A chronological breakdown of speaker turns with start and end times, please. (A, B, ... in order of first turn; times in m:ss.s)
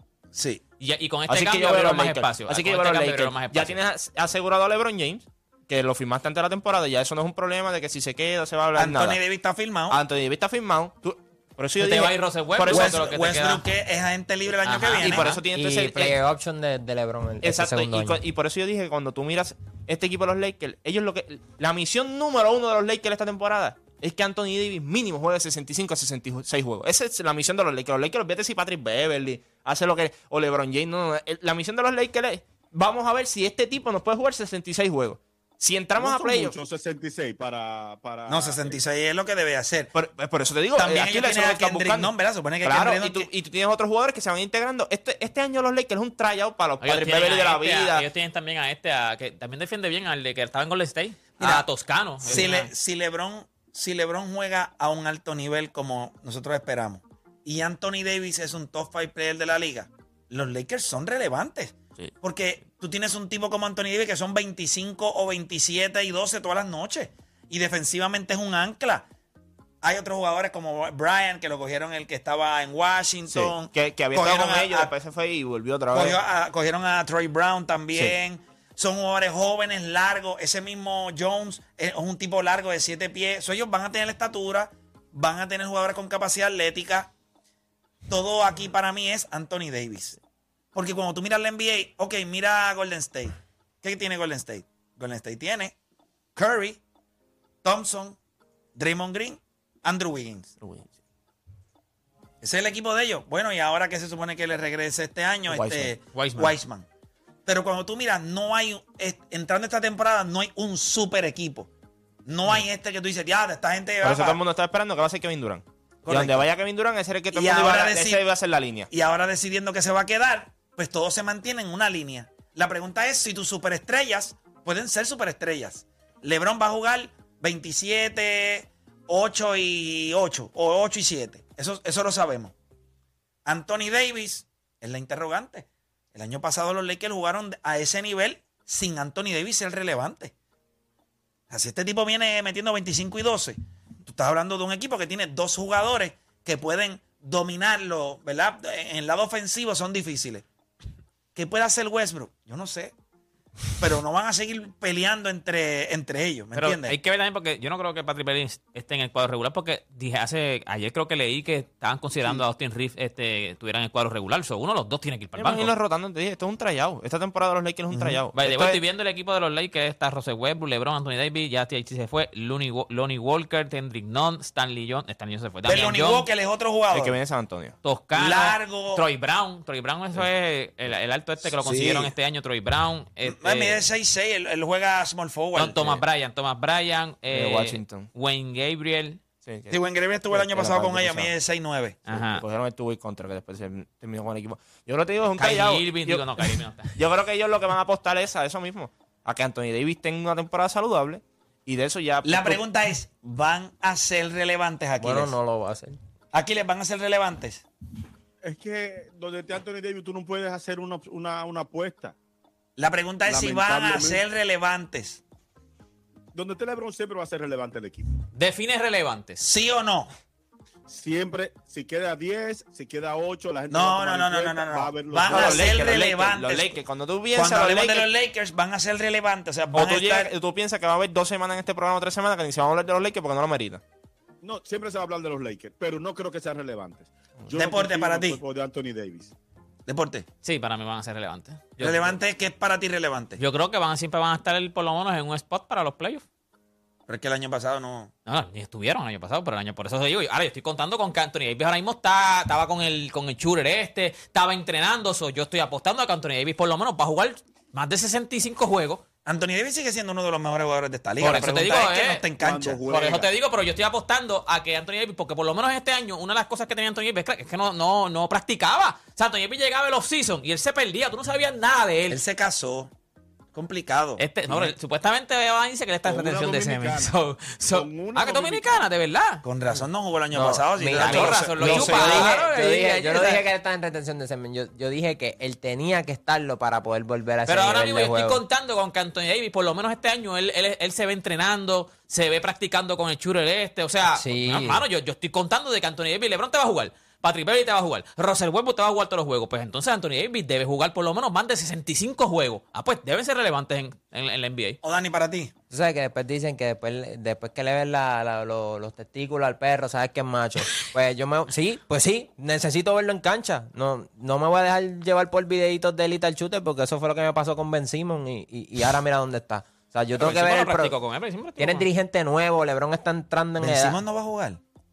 0:00.3-0:00.6 A
0:00.8-0:03.8 B
0:01.3-0:09.2 C
0:08.8-0:10.0 A
0:09.9-0:13.1 C
0:11.8-0:13.6 B
0:12.7-0:15.3 A
0:14.6-0:15.4 B
0:15.0-0:16.2 C
0:15.5-0:18.2 D
0:17.4-0:36.5 C
0:36.0-0:38.8 E
0:38.3-0:39.9 A
0:39.9-0:48.1 C
0:40.8-0:43.3 A
0:46.8-0:52.7 B
0:52.2-1:09.0 A
1:09.8-1:14.9 A
1:13.3-1:16.2 C
1:15.9-1:27.1 A
1:28.1-1:30.2 A
1:30.7-1:35.7 A
1:36.4-1:36.8 A
1:37.6-1:38.2 A
1:38.8-1:40.5 A
1:40.6-1:40.9 C
1:42.4-1:46.8 A
1:45.5-1:45.9 C
1:46.1-1:46.5 B
1:47.4-1:51.7 A
1:52.2-1:54.4 A
1:54.0-1:58.9 C
1:56.0-1:56.4 A
1:57.3-1:58.2 A
1:58.9-2:12.5 A
2:13.4-2:20.3 A
2:21.5-2:30.4 A
2:31.3-2:32.9 A
2:33.8-2:37.0 A
2:36.5-2:45.7 B
2:45.4-2:48.8 C
2:47.9-2:48.2 A
2:48.3-2:56.3 B
2:55.6-2:57.2 A
2:56.9-2:57.7 C
2:57.8-3:03.8 B
2:58.1-2:59.0 A
3:01.6-3:02.1 A
3:03.2-3:06.0 A
3:05.5-3:09.2 B
3:07.3-3:08.1 C
3:09.4-3:11.3 C
3:09.7-3:12.0 A
3:12.1-3:12.4 B
3:12.1-3:22.6 C
3:15.4-3:17.0 B
3:22.2-3:25.3 A
3:25.0-3:26.0 D
3:26.3-3:27.6 A
3:28.4-3:32.1 E
3:32.8-3:35.2 A
3:33.2-3:34.2 E
3:36.3-3:38.1 E
3:38.3-3:39.4 B
3:39.4-3:40.1 A
3:40.9-3:45.9 E
3:43.7-3:46.8 A
3:45.2-3:48.1 C
3:47.3-3:50.3 A
3:49.7-3:53.8 C
3:54.4-3:59.3 E
3:57.6-3:58.4 A
3:59.9-4:00.2 A
4:00.4-4:02.2 B
4:01.8-4:03.4 A
4:03.4-4:06.2 B
4:07.1-4:08.1 A
4:08.3-4:19.0 B
4:19.2-4:22.8 A
4:21.2-4:22.2 B
4:22.4-4:23.3 E
4:22.9-4:32.2 B
4:32.1-4:32.9 A
4:33.5-4:34.2 A
4:34.2-4:39.4 B
4:36.0-4:37.1 E
4:37.7-4:38.8 E
4:39.4-4:42.3 A
4:40.3-4:48.4 D
4:40.9-4:43.4 B
4:47.5-5:04.8 B
4:54.1-4:54.8 D
5:04.8-5:05.5 A
5:05.7-5:20.9 D
5:20.2-5:21.9 B
5:21.6-5:24.0 D
5:23.6-5:24.6 A